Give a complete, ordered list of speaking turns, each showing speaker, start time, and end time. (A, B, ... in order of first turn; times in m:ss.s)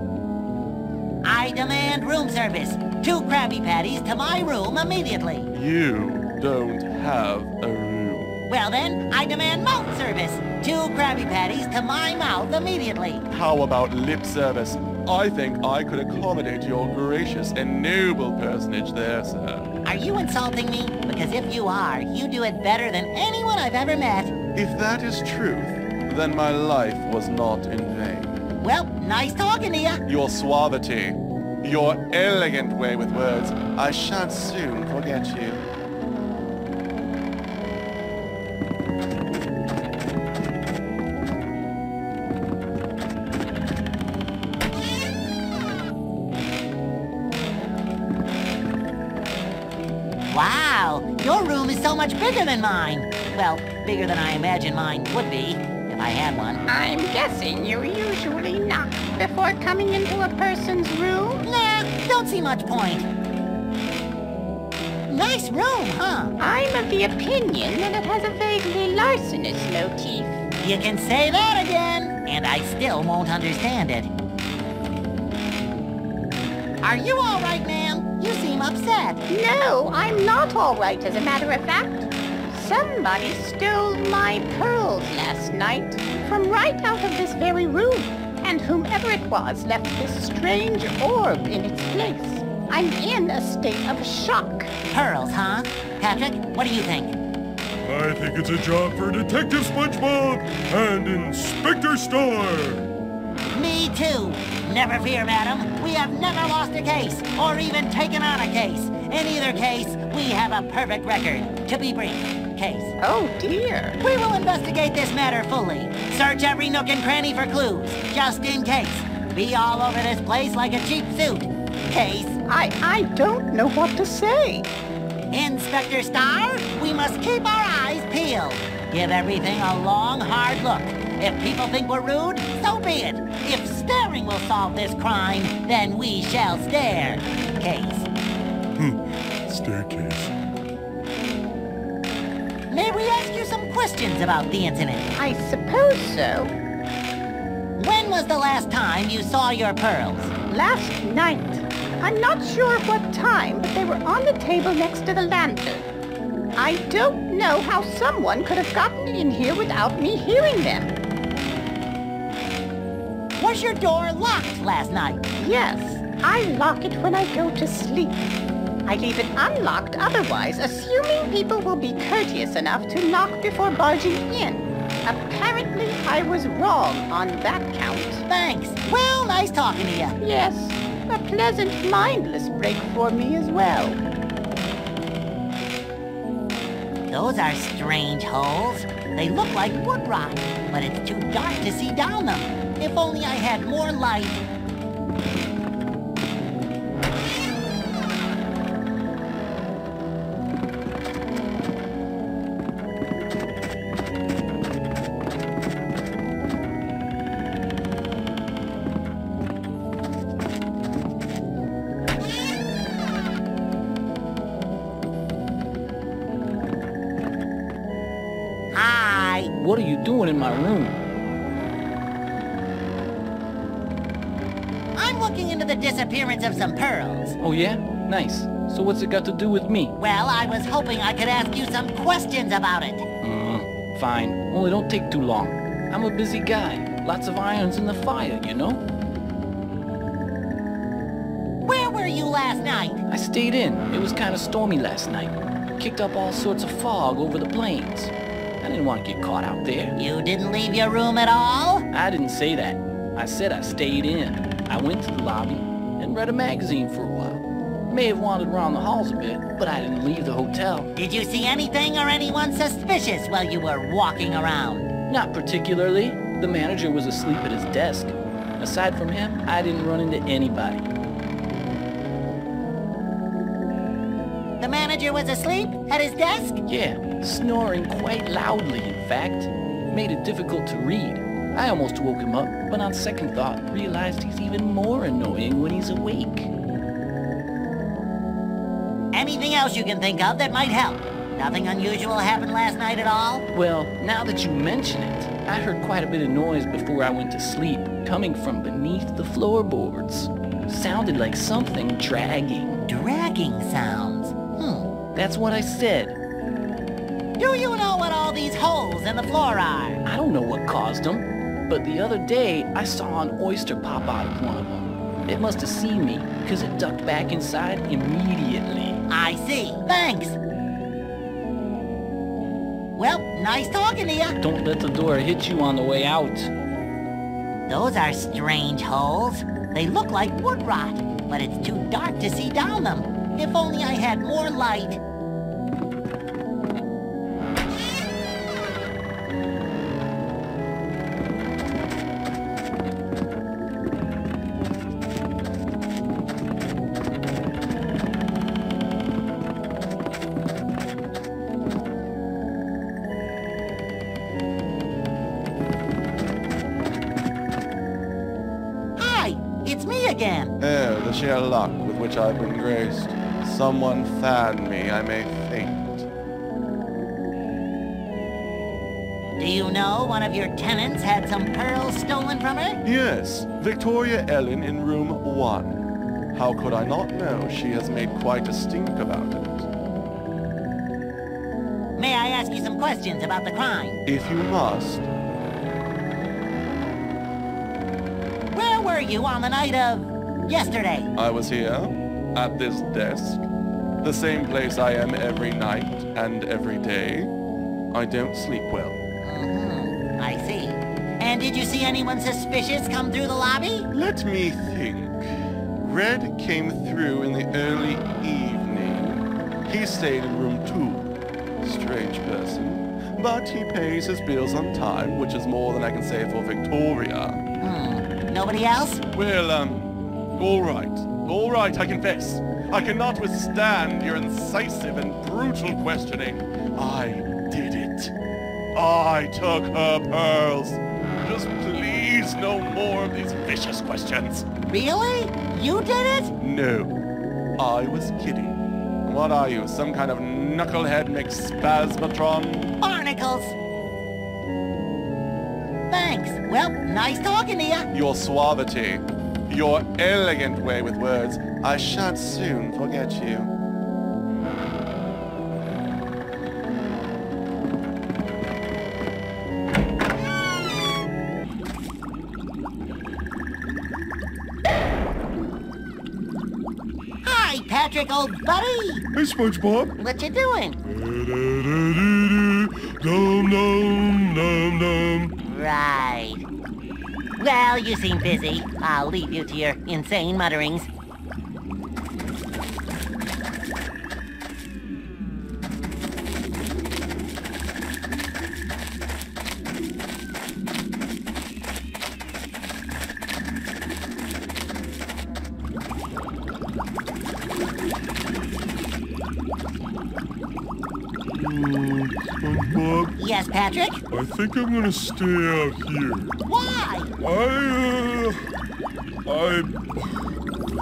0:01.2-0:05.5 A
0:05.5-0:08.4 B
0:08.5-0:13.2 A
0:13.3-0:19.7 B
0:19.8-0:24.3 A
0:24.6-0:28.4 B
0:28.6-0:30.0 A
0:30.1-0:35.6 B
0:50.3-0:56.6 A
0:56.7-1:01.4 C
1:01.4-1:03.1 A
1:05.1-1:06.3 A
1:06.4-1:10.4 C
1:10.6-1:14.1 A
1:16.8-1:19.2 A
1:19.3-1:34.7 C
1:34.9-1:37.2 A
1:37.8-1:42.9 D
1:43.5-1:52.9 A
1:53.0-1:54.0 C
1:54.0-2:02.4 A
2:02.5-2:04.7 C
2:05.3-2:18.1 A
2:18.8-2:20.3 D
2:22.7-2:25.1 A
2:25.1-2:26.5 C
2:27.8-2:30.4 A
2:30.4-2:35.9 C
2:36.6-2:41.0 C
2:43.4-2:45.2 A
2:45.4-2:48.2 C
2:48.8-2:58.2 C
2:58.3-3:00.2 A
3:00.2-3:04.0 C
3:07.1-3:14.4 A
3:38.7-3:39.5 A
3:39.6-3:41.0 E
3:44.9-3:47.4 A
3:47.4-3:49.9 E
3:50.0-3:53.1 A
3:53.2-3:58.8 E
4:01.6-4:03.0 A
4:03.1-4:09.9 E
4:10.0-4:11.8 A
4:11.9-4:20.9 E
4:20.9-4:24.9 A
4:25.1-4:30.9 E
4:34.6-4:36.6 A
4:36.7-4:46.5 E
4:49.1-4:53.4 A
4:53.5-5:02.8 E
5:02.8-5:04.9 A
5:05.1-5:06.2 E
5:07.4-5:10.0 A
5:10.1-5:19.0 E
5:19.1-5:20.4 A
5:23.0-5:24.4 A
5:24.4-5:26.5 E
5:27.7-5:35.0 A
5:59.0-6:00.5 A
6:00.6-6:06.1 B
6:09.4-6:12.8 A
6:12.8-6:19.7 B
6:22.0-6:24.0 A
6:24.1-6:25.1 B
6:28.5-6:31.1 A
6:31.2-6:33.4 B
6:34.0-6:37.3 B
6:37.9-6:39.0 B
6:39.2-6:43.9 A
6:43.9-6:57.4 B
6:57.6-6:59.0 A
6:59.1-7:08.1 B
7:08.7-7:14.5 B
7:14.7-7:16.3 A
7:16.4-7:17.0 B
7:17.6-7:22.8 B
7:22.8-7:23.6 A
7:25.9-7:27.9 A
7:27.9-7:33.5 B
7:47.2-7:49.0 A
7:49.2-7:49.9 D
7:50.0-7:50.8 A
7:50.8-7:55.3 D
7:55.4-7:56.4 A
7:57.4-8:00.9 A
8:21.3-8:23.1 D
8:23.2-8:24.0 A
8:24.1-8:26.4 D
8:26.4-8:27.1 A
8:27.2-8:28.4 D
8:29.3-8:30.1 D